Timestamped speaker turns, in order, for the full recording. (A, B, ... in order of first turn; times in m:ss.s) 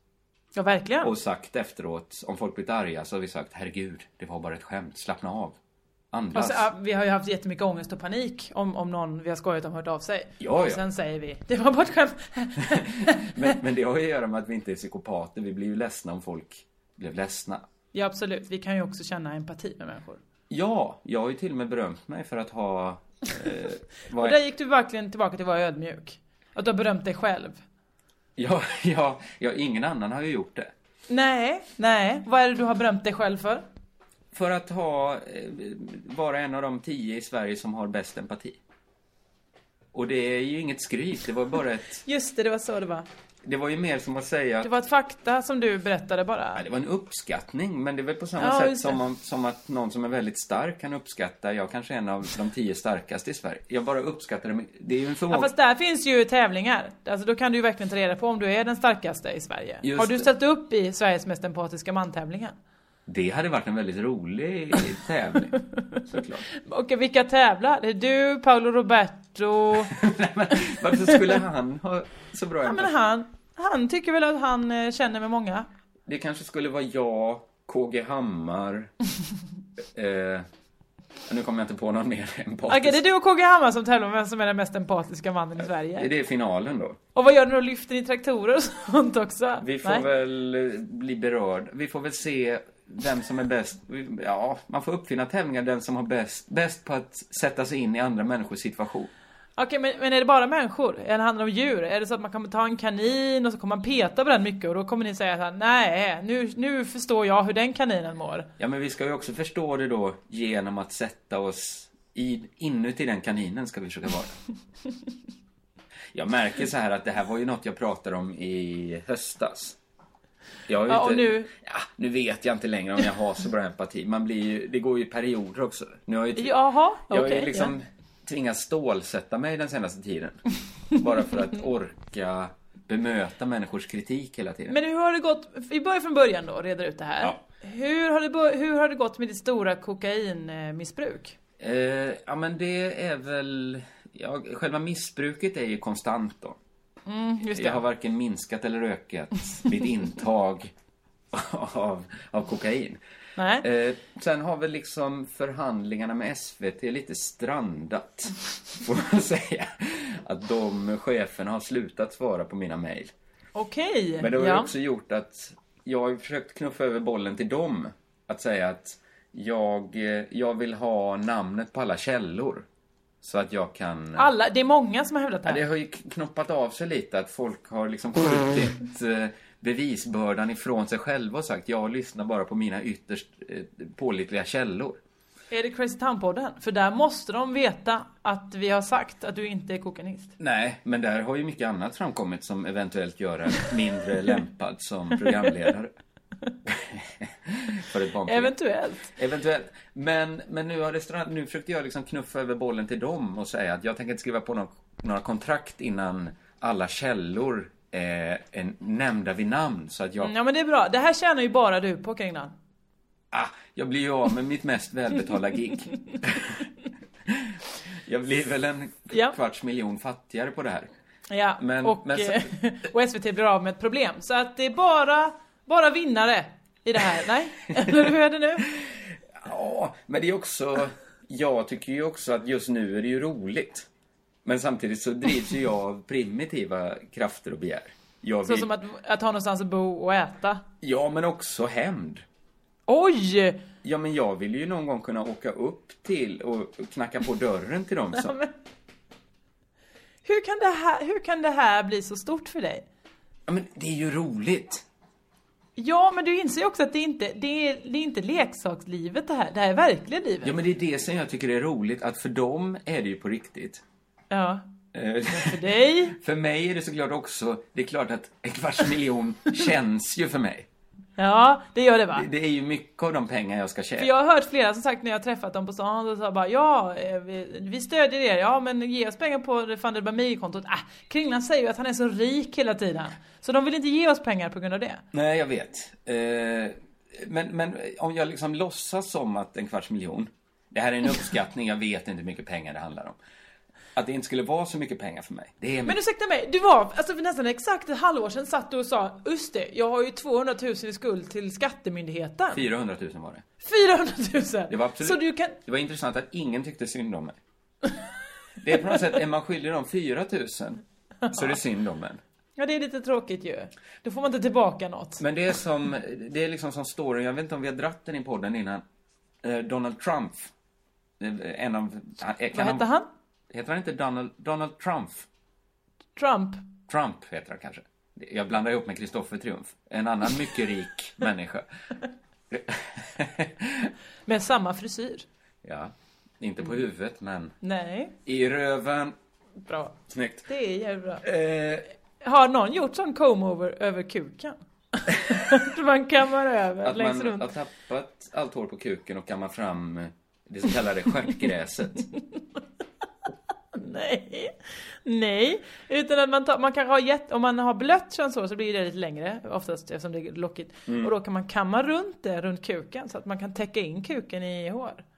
0:00.6-0:01.1 A
0:01.0-0:05.6 B
0:06.1-0:06.7 B
0:06.3-0:13.5 A
0:10.4-0:10.8 B
0:12.7-0:17.7 B
0:17.9-0:20.2 A
0:20.5-0:24.4 B
0:24.2-0:27.6 A
0:28.4-0:30.7 B
0:31.1-0:33.6 A
0:34.3-0:38.6 B
0:39.9-0:42.0 B
0:42.1-0:43.1 A
0:43.4-0:44.7 B
0:44.6-0:46.6 A
0:46.6-0:55.5 B
0:48.4-0:49.0 A
0:55.3-1:02.6 A
0:59.8-1:00.3 B
1:03.1-1:06.4 B
1:05.7-1:06.0 A
1:06.5-1:09.9 A
1:09.9-1:12.9 B
1:10.9-1:11.4 A
1:12.6-1:15.7 A
1:16.1-1:18.9 B
1:19.9-1:20.5 B
1:21.3-1:23.0 B
1:22.7-1:26.1 A
1:25.9-1:27.0 B
1:27.2-1:30.1 A
1:29.6-1:39.1 B
1:39.6-1:48.5 A
1:48.6-1:54.4 B
1:56.1-1:59.8 B
2:00.7-2:14.8 B
2:00.9-2:01.5 A
2:06.4-2:07.7 A
2:14.7-2:21.4 A
2:21.6-2:26.6 B
2:27.1-2:27.8 A
2:27.5-2:30.7 B
2:31.3-2:33.0 B
2:33.4-2:33.7 A
2:33.6-2:43.1 B
2:43.6-2:44.7 A
2:44.2-2:52.7 B
2:53.2-2:54.3 B
2:54.2-2:55.6 A
2:55.5-3:05.0 B
3:05.5-3:10.3 A
3:10.4-3:15.9 B
3:16.7-3:18.5 B
3:18.3-3:19.1 A
3:19.1-3:30.3 B
3:30.2-3:32.5 A
3:33.3-3:36.7 B
3:37.3-3:40.9 B
3:41.3-3:48.7 A
3:41.6-3:42.5 B
3:48.7-3:53.9 B
3:54.4-3:58.7 B
3:58.4-4:00.6 A
4:00.8-4:02.2 B
4:02.9-4:03.6 A
4:03.8-4:08.3 B
4:08.2-4:08.5 A
4:10.2-4:12.8 A
4:13.5-4:14.8 B
4:15.8-4:20.5 A
4:20.4-4:23.8 B
4:24.3-4:24.6 A
4:24.9-4:30.7 B
4:25.3-4:26.2 A
4:31.2-4:32.3 A
4:32.1-4:34.1 B
4:34.0-4:45.0 A
4:45.1-4:53.2 B
4:54.0-4:56.0 B
4:55.9-5:02.6 A
5:02.5-5:03.4 B
5:03.6-5:05.6 A
5:04.7-5:07.4 B
5:08.6-5:12.2 B
5:11.2-5:11.5 A
5:12.6-5:15.2 A
5:15.2-5:18.8 B
5:19.4-5:20.5 B
5:21.2-5:22.9 B
5:22.5-5:23.1 A
5:23.5-5:25.3 B
5:26.2-5:26.6 A
5:26.9-5:31.7 B
5:32.5-5:33.9 B
5:34.3-5:35.3 A
5:35.6-5:37.5 B
5:37.6-5:38.1 A
5:38.2-5:39.2 B
5:39.6-5:40.0 A
5:40.1-5:40.5 B
5:40.5-5:41.2 A
5:41.2-5:41.9 B
5:42.2-5:47.5 A
5:46.8-5:52.1 B
5:53.7-6:05.0 A
6:00.9-6:01.1 B